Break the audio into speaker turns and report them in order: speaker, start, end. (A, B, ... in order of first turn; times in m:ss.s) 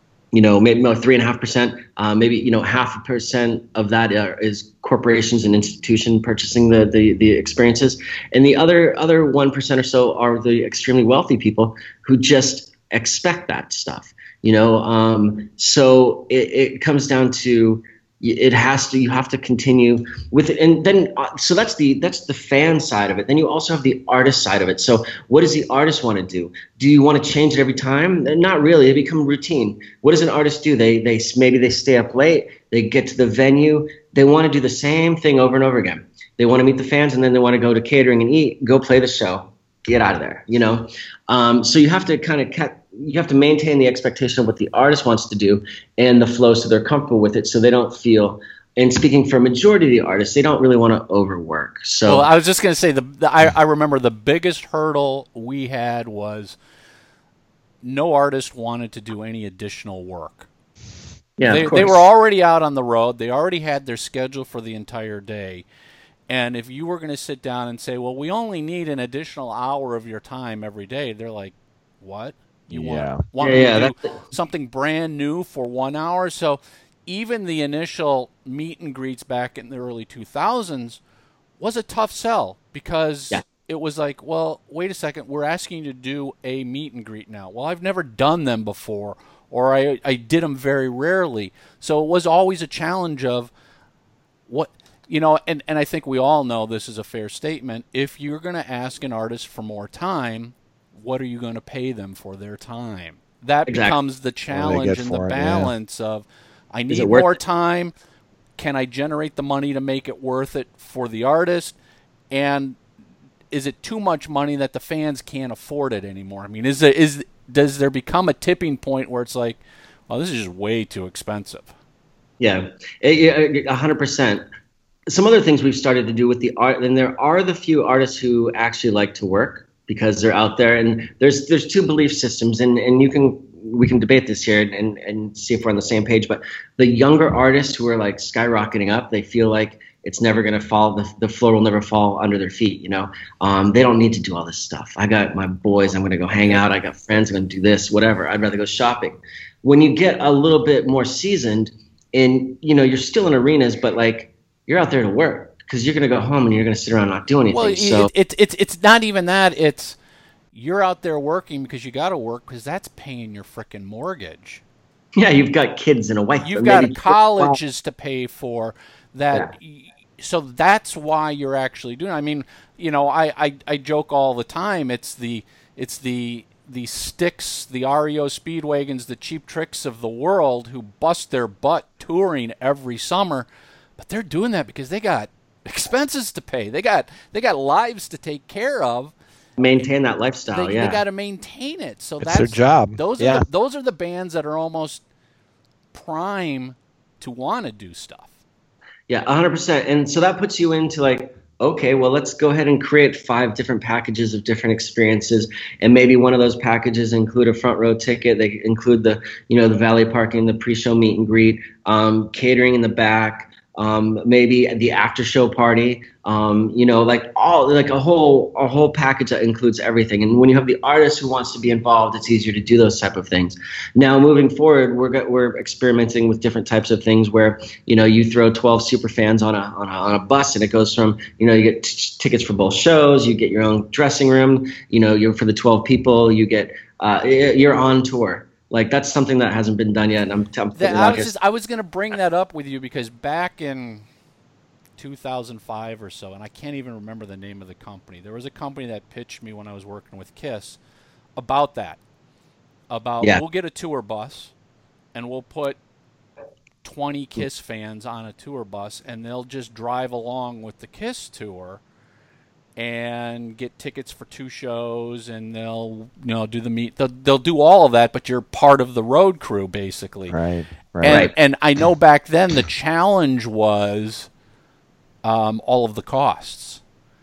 0:00.3-0:52.3 A
0:52.0-0:56.6 B
0:57.8-1:00.5 B
1:01.4-1:02.0 A
1:01.4-1:05.6 B
1:06.3-1:21.0 B
1:12.7-1:13.2 C
1:13.4-1:14.2 A
1:21.6-1:33.5 B
1:34.5-1:47.9 B
1:43.7-1:44.0 A
1:44.5-1:45.7 C
1:46.9-1:47.4 A
1:48.6-1:51.8 B
1:52.3-1:52.8 B
1:53.5-2:01.7 B
2:02.4-2:04.4 A
2:05.1-2:38.1 A
2:37.5-2:40.0 B
2:40.5-2:44.6 B
2:45.2-2:47.6 A
2:46.4-3:09.1 B
3:09.6-3:11.0 A
3:10.5-3:15.0 B
3:12.2-3:13.4 C
3:15.9-3:18.3 B
3:19.1-4:01.3 A
4:00.8-4:04.0 B
4:05.0-4:10.8 B
4:11.4-4:12.0 B
4:12.9-4:14.5 B
4:15.1-4:15.8 B
4:16.8-4:21.8 B
4:22.8-4:30.4 B
4:30.3-4:31.3 C
4:31.0-4:34.3 B
4:31.1-4:31.3 A
4:35.2-4:36.8 B